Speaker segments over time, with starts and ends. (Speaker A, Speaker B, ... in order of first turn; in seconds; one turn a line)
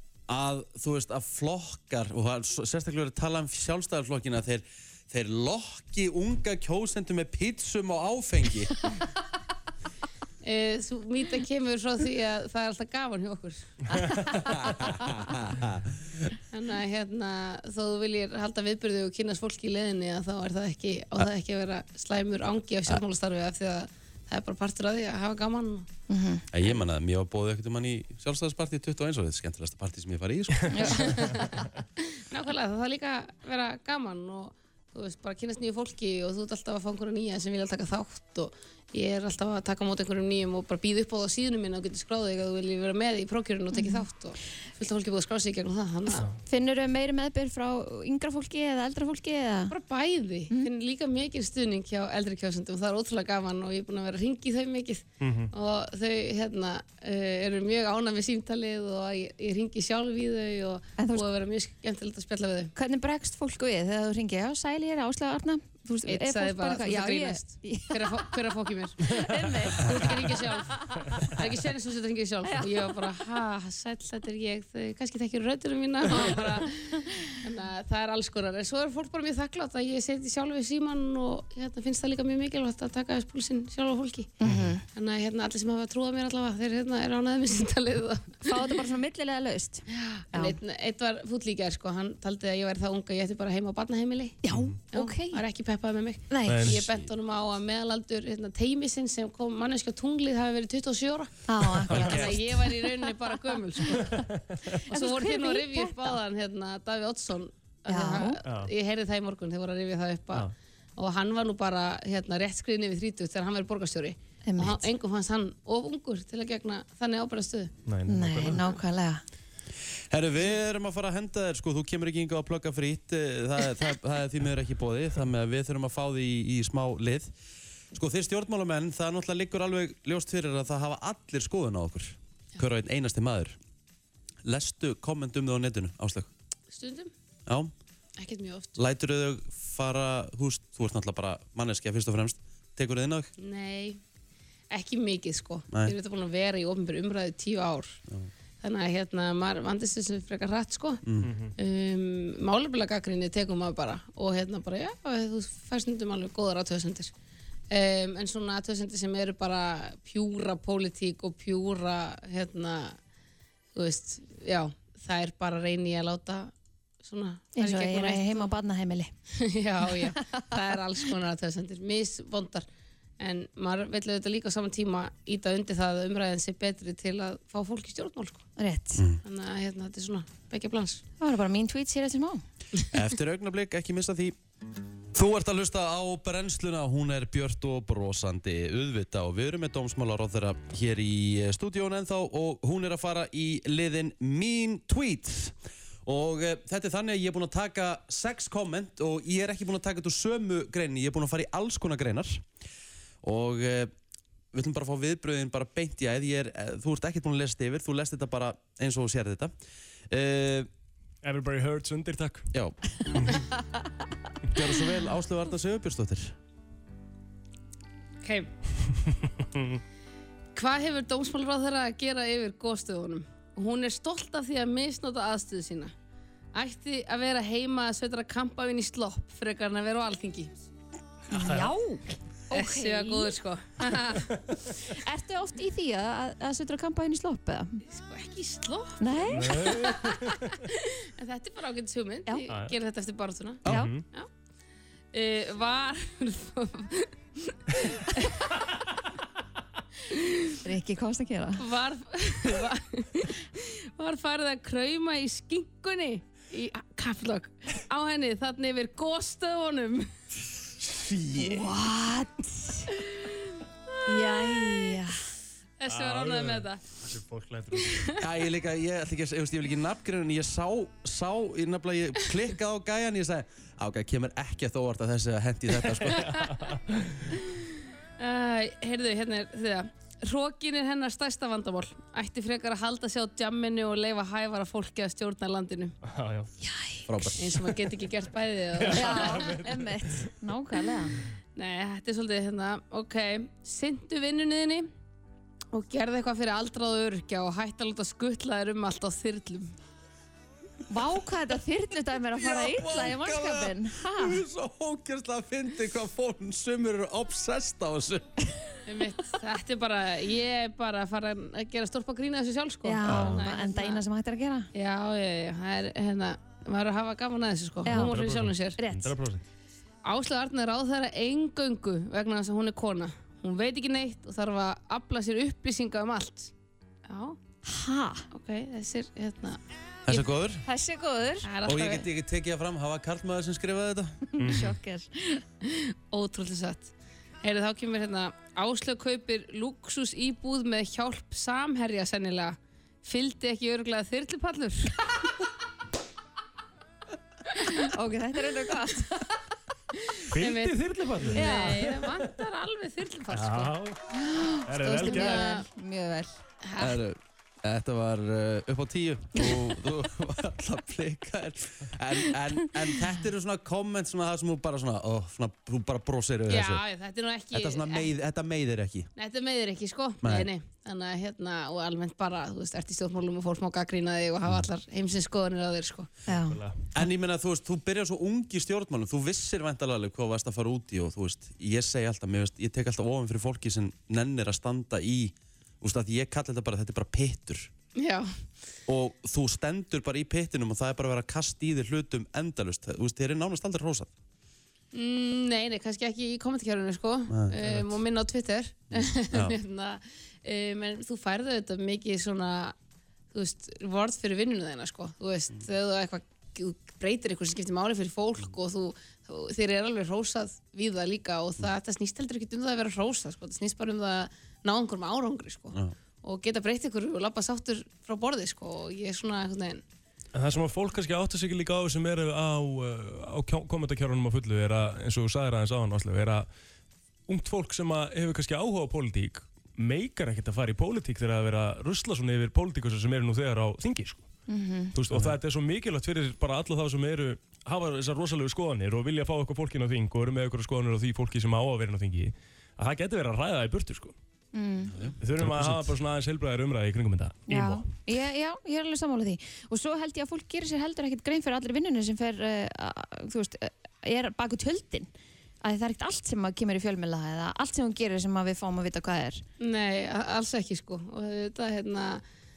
Speaker A: 0.3-8.7
Speaker B: 10.4-14.1
Speaker A: 14.6-15.8
Speaker B: 16.5-25.9
Speaker C: 26.1-26.4
Speaker A: 26.5-31.3
Speaker C: 30.7-31.2
Speaker B: 31.0-31.6
Speaker B: 32.1-46.3
Speaker C: 43.7-44.0
Speaker C: 46.5-49.7
Speaker B: 49.7-62.7
Speaker D: 55.2-55.5
Speaker C: 61.0-61.2
Speaker C: 62.8-68.4
Speaker B: 66.1-84.3
Speaker C: 69.0-70.3
Speaker C: 70.9-71.3
Speaker C: 72.4-73.0
Speaker C: 84.4-84.8
Speaker B: 84.9-88.4
Speaker C: 88.4-90.6
Speaker B: 89.9-94.4
Speaker C: 94.4-95.4
Speaker B: 94.9-101.3
Speaker C: 96.3-96.7
Speaker D: 96.5-96.9
Speaker C: 101.5-103.1
Speaker B: 101.9-104.2
Speaker D: 101.9-102.2
Speaker A: 101.9-102.3
Speaker C: 103.9-104.2
Speaker D: 104.1-104.6
Speaker B: 104.9-117.7
Speaker C: 104.9-106.2
Speaker C: 107.9-108.4
Speaker D: 108.4-108.7
Speaker C: 114.5-114.9
Speaker D: 117.9-118.6
Speaker C: 118.1-119.2
Speaker A: 120.1-127.3
Speaker A: 127.9-133.6
Speaker A: 134.4-136.3
Speaker B: 136.7-137.1
Speaker A: 137.5-137.7
Speaker B: 138.2-138.8
Speaker A: 138.8-143.3
Speaker B: 143.4-144.0
Speaker B: 144.7-148.0
Speaker B: 148.6-151.0
Speaker A: 151.0-151.3
Speaker D: 151.2-151.5
Speaker B: 151.6-157.1
Speaker B: 157.7-163.0
Speaker B: 163.7-166.5
Speaker B: 167.0-168.5
Speaker C: 167.6-169.1
Speaker B: 169.4-172.7
Speaker B: 173.2-178.4
Speaker C: 178.6-179.0
Speaker A: 179.0-179.2
Speaker B: 179.2-181.0
Speaker C: 181.2-182.4
Speaker A: 182.9-184.4
Speaker A: 185.1-202.4
Speaker A: 203.2-203.9
Speaker A: 204.5-209.5
Speaker A: 210.1-210.7
Speaker D: 211.2-212.5
Speaker A: 212.5-213.4
Speaker A: 214.5-216.4
Speaker B: 218.2-218.5
Speaker B: 220.5-225.9
Speaker B: 226.5-230.5
Speaker C: 231.3-233.3
Speaker D: 231.4-231.7
Speaker B: 232.5-234.4
Speaker C: 234.9-237.8
Speaker B: 237.9-244.3
Speaker C: 239.0-239.6
Speaker D: 239.3-240.6
Speaker C: 243.7-243.9
Speaker D: 243.7-244.0
Speaker B: 245.1-248.6
Speaker B: 250.1-250.6
Speaker C: 250.6-251.6
Speaker B: 251.6-260.1
Speaker A: 260.9-261.6
Speaker C: 261.4-262.9
Speaker B: 263.9-264.9
Speaker C: 264.1-265.2
Speaker B: 265.8-266.8
Speaker D: 265.9-268.1
Speaker B: 267.8-268.2
Speaker A: 268.2-276.4
Speaker D: 276.0-277.2
Speaker B: 276.1-276.5
Speaker B: 278.2-285.9
Speaker D: 286.0-286.5
Speaker C: 286.6-287.4
Speaker A: 287.1-287.7
Speaker B: 287.4-289.6
Speaker D: 288.8-290.2
Speaker C: 288.9-291.2
Speaker B: 291.6-294.9
Speaker B: 295.7-299.7
Speaker C: 300.9-304.4
Speaker A: 302.4-308.3
Speaker B: 308.9-314.0
Speaker C: 312.8-314.7
Speaker D: 313.1-313.4
Speaker B: 314.7-318.8
Speaker C: 317.9-318.1
Speaker D: 317.9-319.4
Speaker C: 318.8-319.1
Speaker B: 320.0-326.5
Speaker B: 327.1-327.4
Speaker C: 327.6-328.3
Speaker B: 328.3-330.3
Speaker A: 330.1-330.6
Speaker C: 330.6-331.5
Speaker B: 331.4-332.1
Speaker A: 331.6-334.2
Speaker C: 334.4-335.4
Speaker D: 334.4-334.7
Speaker B: 335.6-345.0
Speaker C: 347.7-349.3
Speaker B: 350.1-353.7
Speaker D: 350.3-352.2
Speaker C: 351.4-351.9
Speaker D: 353.3-354.0
Speaker C: 354.1-356.4
Speaker D: 354.6-355.5
Speaker B: 354.8-355.6
Speaker B: 356.6-357.0
Speaker A: 356.8-366.8
Speaker B: 366.5-368.1
Speaker A: 367.5-369.1
Speaker B: 369.1-376.1
Speaker A: 370.2-370.5
Speaker C: 376.2-376.6
Speaker D: 376.5-376.8
Speaker A: 376.9-387.7
Speaker B: 387.9-388.3
Speaker A: 388.9-394.1
Speaker B: 394.9-402.7
Speaker A: 397.3-397.9
Speaker A: 398.9-399.6
Speaker B: 403.3-419.8
Speaker D: 420.3-426.5
Speaker D: 427.3-434.3
Speaker C: 434.5-434.9
Speaker D: 434.9-444.1
Speaker A: 435.1-435.4
Speaker C: 444.5-444.9
Speaker A: 444.9-445.9
Speaker D: 445.2-447.9
Speaker C: 447.5-455.1
Speaker C: 455.6-459.4
Speaker B: 459.6-462.2